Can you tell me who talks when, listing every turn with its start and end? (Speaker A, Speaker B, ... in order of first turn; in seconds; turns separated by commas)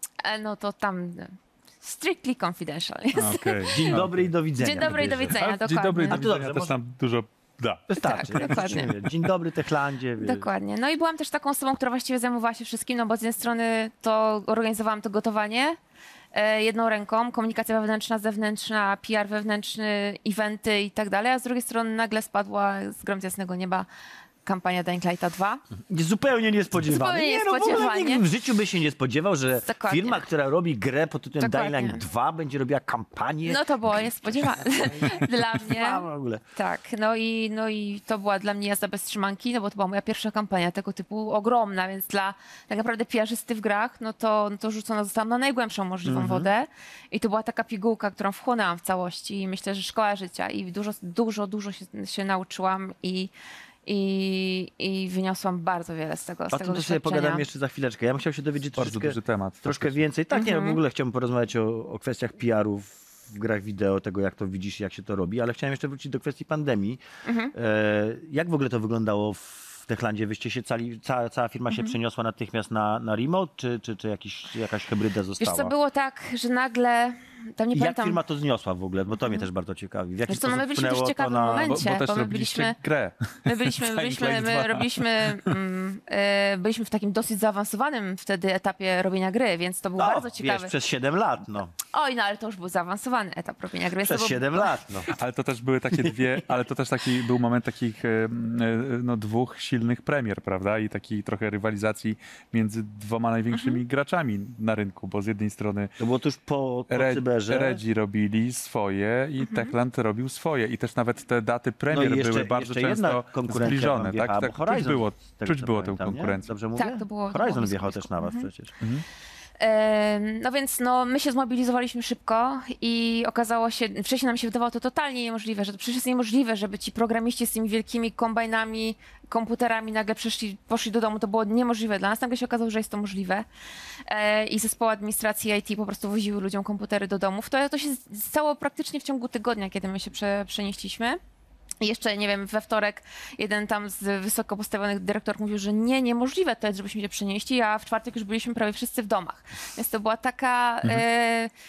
Speaker A: 0.2-4.0, Speaker B: 3.1-4.3, Speaker C: 3.7-5.4, Speaker A: 4.6-6.2, Speaker B: 5.3-9.1, Speaker C: 6.1-6.7, Speaker C: 7.9-10.5, Speaker A: 8.0-8.9, Speaker A: 10.2-15.8, Speaker A: 16.3-23.9, Speaker A: 24.4-25.6, Speaker C: 25.9-36.4, Speaker A: 26.8-28.2, Speaker A: 29.6-30.3, Speaker A: 31.4-32.0, Speaker A: 33.4-53.3, Speaker C: 46.0-46.5, Speaker A: 53.9-57.4, Speaker C: 56.5-67.0, Speaker B: 58.8-60.0, Speaker A: 60.3-60.8, Speaker A: 67.2-67.5, Speaker C: 67.5-75.7, Speaker A: 75.4-78.2, Speaker C: 77.7-81.8, Speaker A: 80.3-82.8, Speaker B: 81.6-85.5, Speaker A: 83.4-90.7, Speaker C: 90.0-91.7, Speaker A: 91.9-94.8, Speaker C: 94.0-95.1, Speaker B: 95.1-105.9, Speaker A: 103.5-103.8, Speaker C: 106.0-107.8, Speaker B: 106.9-116.5, Speaker A: 109.4-109.7, Speaker C: 111.9-118.7, Speaker A: 116.8-118.5, Speaker A: 119.6-133.4, Speaker A: 134.1-141.2, Speaker A: 141.8-151.5